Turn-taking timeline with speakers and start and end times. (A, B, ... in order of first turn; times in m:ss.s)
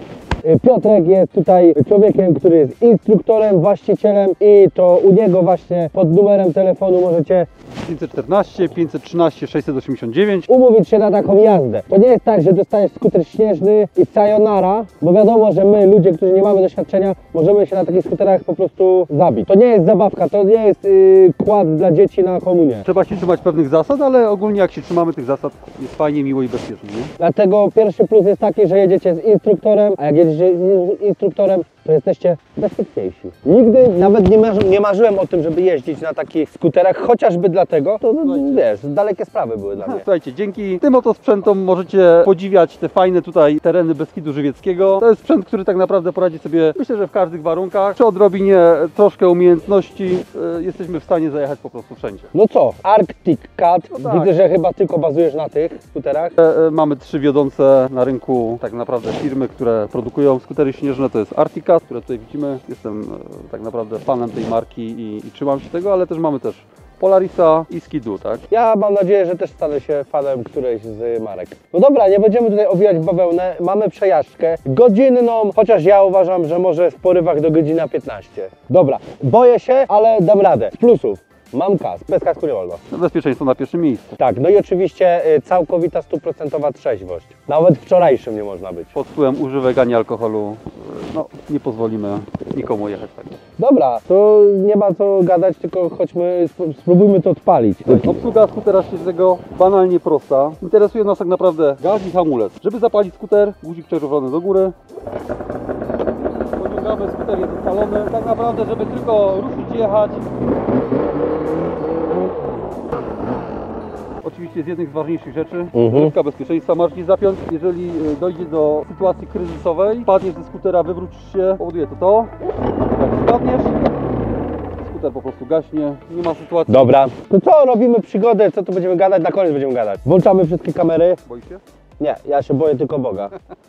0:00.4-0:07.5 A
0:07.8-0:10.5 B
0:10.5-0:22.9 A
0:22.8-0:27.1 B
0:27.2-0:40.1 A
0:38.2-0:38.7 B
0:39.8-0:52.3 B
0:52.3-0:56.4 A
0:53.9-0:54.3 B
0:56.4-1:08.4 B
1:08.5-1:22.8 A
1:22.9-1:24.2 B
1:24.2-1:28.9 A
1:28.9-1:33.4 B
1:33.6-1:38.1 A
1:37.9-1:44.8 B
1:46.6-1:50.2 B
1:54.2-2:02.3 B
1:55.7-1:56.1 A
2:03.0-2:03.9 B
2:04.8-2:06.9 B
2:06.7-2:11.2 A
2:11.3-2:11.6 B
2:12.0-2:13.3 A